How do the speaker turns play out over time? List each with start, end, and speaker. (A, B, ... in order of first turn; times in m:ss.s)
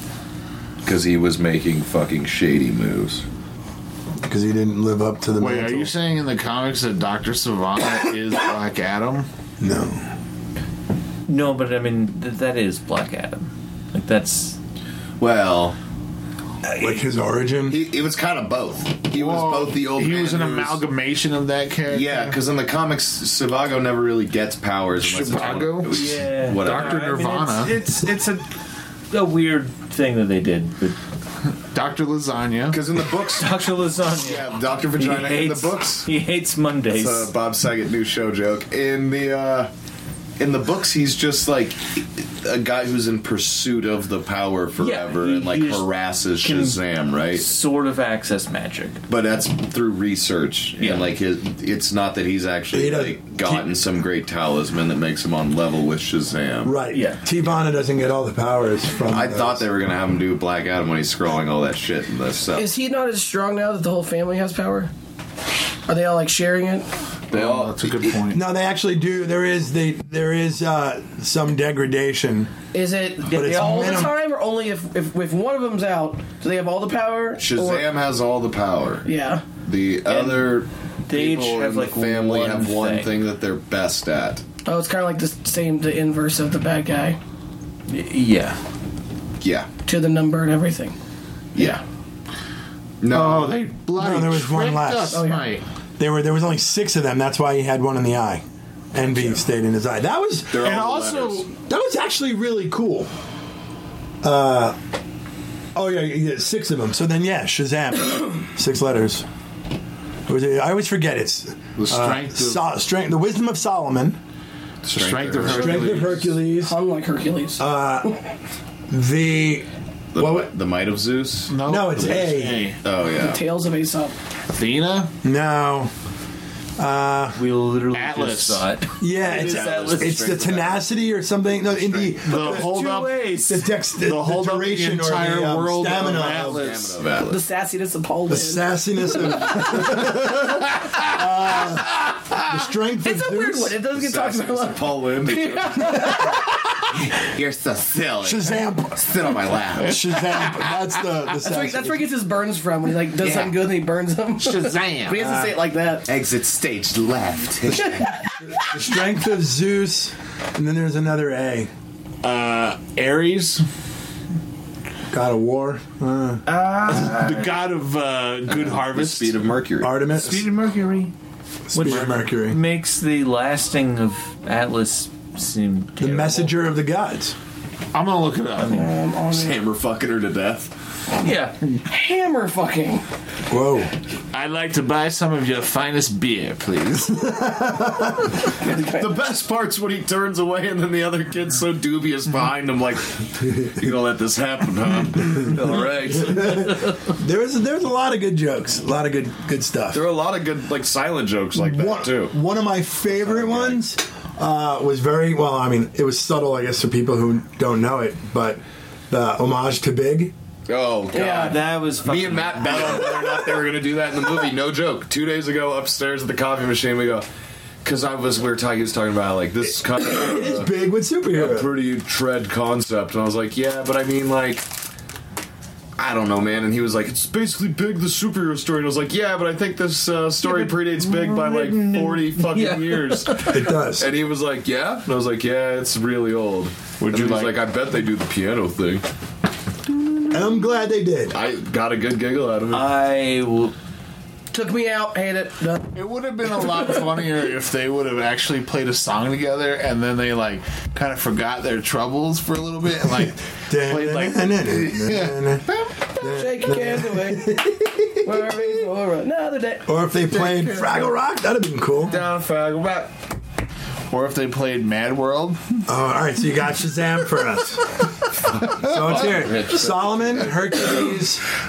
0:00.8-0:03.2 A
0:04.2-0:05.9 B
0:05.4-0:09.3 C
0:09.6-0:10.1 B
0:11.3-0:14.6 D
0:15.2-0:15.8 A
0:16.6-0:17.8 B
0:17.7-0:20.8 A
0:19.1-0:22.4 C
0:21.9-0:27.0 A
0:25.0-0:27.8 C
0:25.9-0:28.4 D
0:29.1-0:31.0 D
0:31.7-0:32.8 C
0:32.7-0:36.1 A
0:33.3-0:37.3 D
0:36.9-0:39.7 A
0:40.4-0:47.5 A
0:44.8-0:45.8 D
0:46.4-0:46.8 D
0:47.3-0:49.0 D
0:49.1-0:56.7 A
0:50.8-0:51.1 D
0:52.7-0:53.6 B
0:56.6-0:59.6 B
0:56.9-0:57.2 D
0:59.1-1:02.7 A
1:02.6-1:04.9 E
1:05.9-1:06.9 E
1:07.3-1:08.2 A
1:07.3-1:08.4 C
1:08.3-1:12.5 B
1:12.7-1:17.8 E
1:13.2-1:14.1 D
1:13.3-1:14.2 B
1:17.4-1:19.1 A
1:19.0-1:19.4 E
1:19.6-1:24.4 A
1:20.1-1:20.5 D
1:21.1-1:23.1 D
1:24.6-1:27.2 E
1:27.9-1:28.6 D
1:29.4-1:29.7 A
1:29.8-1:31.0 E
1:31.5-1:31.8 A
1:33.0-1:33.6 A
1:33.1-1:35.6 C
1:34.0-1:35.2 B
1:35.1-1:35.5 E
1:36.0-1:40.6 B
1:40.5-1:41.5 A
1:40.6-1:41.5 C
1:41.7-1:43.1 B
1:44.2-1:44.8 B
1:45.7-1:49.2 B
1:50.3-1:54.2 B
1:51.8-1:52.6 C
1:54.8-1:56.2 A
1:54.9-1:56.2 C
1:55.4-1:56.8 B
1:56.6-1:57.6 E
1:57.6-1:58.1 B
1:58.9-2:00.5 B
2:00.1-2:03.4 A
2:01.5-2:02.8 C
2:01.7-2:02.7 B
2:03.1-2:04.1 E
2:04.5-2:05.1 C
2:05.2-2:05.9 B
2:06.8-2:07.4 B
2:07.4-2:10.6 D
2:07.9-2:08.7 C
2:09.0-2:12.7 B
2:09.2-2:10.8 A
2:11.7-2:12.5 A
2:12.2-2:13.1 C
2:12.2-2:13.6 D
2:13.5-2:16.6 B
2:14.0-2:17.0 C
2:16.3-2:17.4 A
2:17.2-2:19.7 E
2:18.3-2:23.8 B
2:20.4-2:21.0 C
2:23.0-2:26.5 E
2:23.9-2:26.2 A
2:26.9-2:29.9 A
2:28.2-2:29.0 B
2:29.8-2:30.8 C
2:29.8-2:32.1 B
2:31.4-2:36.1 E
2:33.2-2:33.7 A
2:34.4-2:35.4 C
2:35.2-2:35.5 B
2:36.0-2:38.0 A
2:37.6-2:41.7 B
2:37.7-2:38.8 E
2:42.2-2:43.6 C
2:45.1-2:46.4 B
2:46.4-2:47.5 D
2:46.9-2:49.4 C
2:48.4-2:50.0 A
2:49.8-2:50.4 B
2:50.1-2:51.1 D
2:51.7-2:52.6 B
2:51.7-2:56.5 D
2:51.8-2:52.2 C
2:56.0-2:57.3 B
2:57.9-2:58.9 C
2:58.6-2:59.6 E
2:59.3-3:00.7 A
3:01.2-3:01.6 D
3:01.8-3:03.0 E
3:03.5-3:03.9 B
3:04.3-3:07.4 C
3:07.3-3:08.3 B
3:08.4-3:16.9 A
3:16.1-3:20.0 B
3:19.9-3:22.3 A
3:21.6-3:30.3 B
3:23.1-3:23.8 A
3:30.7-3:37.2 A
3:31.1-3:33.0 D
3:31.1-3:31.6 E
3:37.8-3:40.7 A
3:40.1-3:41.7 B
3:41.3-3:44.7 A
3:46.0-3:59.0 A
3:50.4-3:53.5 D
3:53.4-3:54.1 B
3:57.0-3:57.5 C
4:00.3-4:01.4 B
4:01.3-4:02.9 A
4:02.7-4:03.7 D
4:04.5-4:05.8 E
4:05.9-4:15.9 C
4:13.5-4:15.6 B
4:16.2-4:17.5 E
4:16.2-4:18.6 B
4:18.2-4:20.0 E
4:19.8-4:22.1 B
4:22.0-4:23.1 A
4:24.1-4:25.8 C
4:25.9-4:28.0 B
4:28.6-4:30.4 A
4:28.7-4:31.4 B